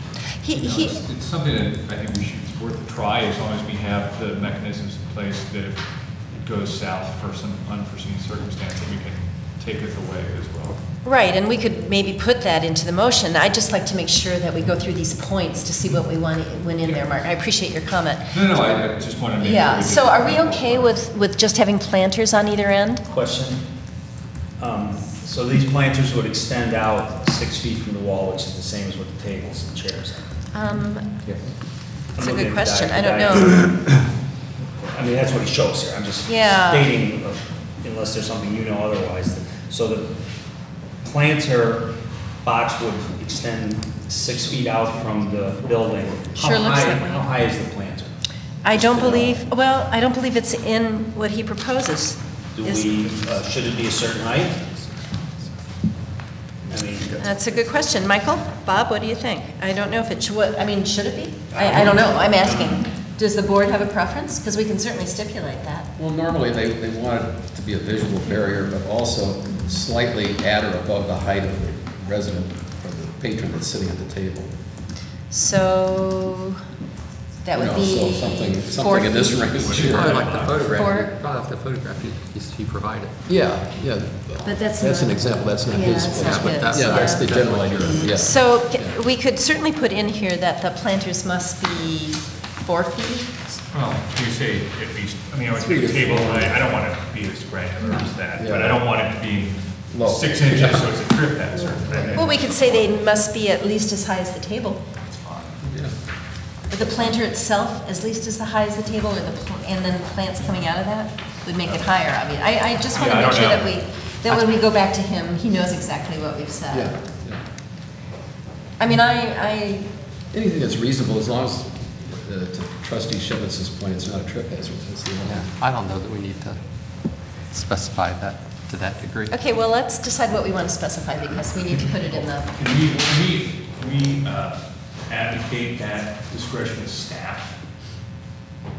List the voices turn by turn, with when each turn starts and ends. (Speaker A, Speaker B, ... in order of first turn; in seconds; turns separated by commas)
Speaker A: 0.4-1.0, Speaker B: 0.5-10.8, Speaker A: 11.0-18.3, Speaker B: 18.3-21.0, Speaker A: 19.4-23.0, Speaker C: 23.1-23.6, Speaker C: 24.6-30.3, Speaker A: 30.5-31.1, Speaker C: 32.1-33.6, Speaker A: 32.2-33.8, Speaker C: 34.8-40.1, Speaker A: 36.2-36.9, Speaker C: 41.0-48.1, Speaker A: 46.3-47.3, Speaker A: 48.6-53.0, Speaker D: 48.7-49.4, Speaker C: 52.5-54.6, Speaker C: 56.7-57.1, Speaker A: 57.2-65.9, Speaker C: 61.5-62.8, Speaker D: 66.0-74.5, Speaker A: 75.3-76.6, Speaker A: 77.4-79.7, Speaker D: 77.5-80.3, Speaker B: 79.5-80.8, Speaker E: 79.8-83.2, Speaker A: 80.6-81.1, Speaker D: 83.2-89.0, Speaker A: 84.4-87.3, Speaker E: 86.1-88.1, Speaker A: 87.8-93.3, Speaker B: 93.7-102.8, Speaker D: 95.5-96.6, Speaker D: 98.4-98.8, Speaker D: 99.9-100.9, Speaker D: 101.7-102.3, Speaker A: 102.1-104.8, Speaker B: 105.0-105.6, Speaker D: 105.6-105.9, Speaker A: 106.7-116.9, Speaker D: 106.8-107.1, Speaker B: 112.9-113.7, Speaker D: 116.7-117.4, Speaker A: 118.8-119.9, Speaker D: 120.3-125.5, Speaker E: 125.2-126.6, Speaker E: 127.5-129.3, Speaker A: 129.3-132.5, Speaker B: 132.1-137.5